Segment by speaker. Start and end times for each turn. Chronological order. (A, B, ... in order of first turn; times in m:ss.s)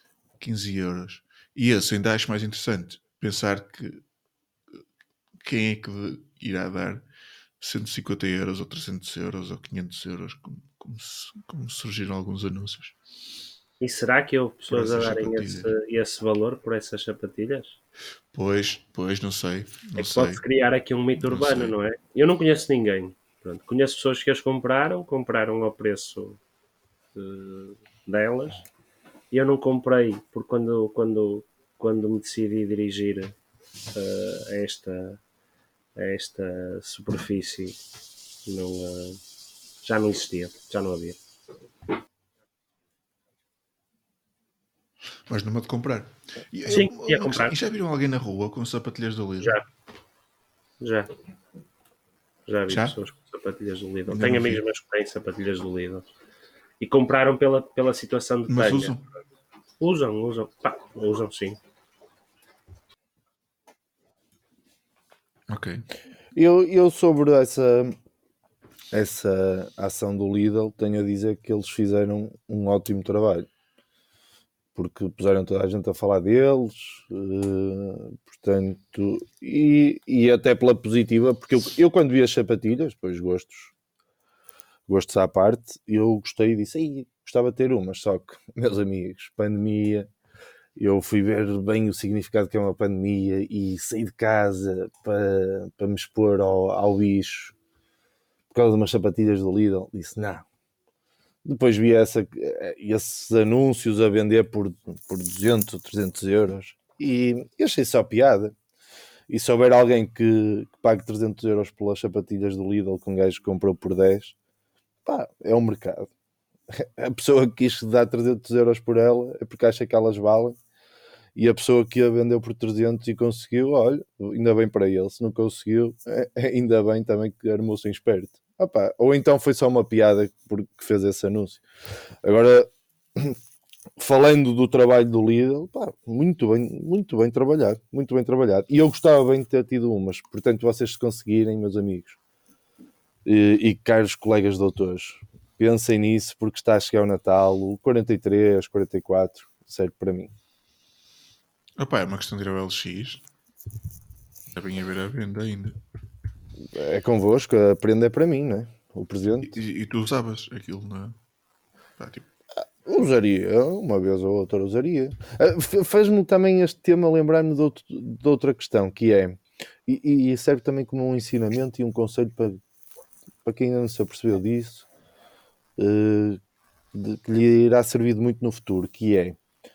0:00.4-0:04.0 A
0:05.4-0:07.0 A
0:07.6-0:12.9 A
0:13.8-0:17.8 B
0:14.7-0:15.7 A
0:18.3-0:20.4 A
0:20.0-0:26.4 B
0:21.2-0:21.7 A
0:27.1-0:28.6 B
0:29.3-0:33.3 B
0:33.9-0:35.2 B
0:36.0-0:37.8 B
0:38.4-0:39.2 B
0:39.8-0:41.2 B
0:45.3-0:49.6 A
0:46.7-0:47.5 B
0:50.8-0:51.1 B
0:52.5-0:56.1 B
0:52.7-0:53.0 A
0:54.1-0:54.6 A
0:56.8-0:59.0 B
0:58.5-0:59.0 A
0:59.8-1:01.6 B
1:05.5-1:05.8 A
1:06.3-1:08.0 C
1:08.9-1:13.5 C
1:14.7-1:23.7 C
1:24.9-1:30.1 C
1:30.8-1:37.5 C
1:38.5-1:40.4 C
1:41.4-1:48.5 C
1:49.3-1:54.3 C
1:55.0-1:56.1 C
1:56.7-2:00.6 C
2:01.4-2:11.6 C
2:12.2-2:13.4 C
2:14.0-2:22.2 C
2:23.2-2:30.3 C
2:31.8-2:33.2 A
2:34.5-2:35.8 A
2:36.6-2:39.5 C
2:39.4-2:41.2 A
2:42.0-2:42.2 A
2:42.6-2:52.6 C
2:53.4-2:54.8 C
2:55.8-2:56.4 C
2:56.9-2:59.4 C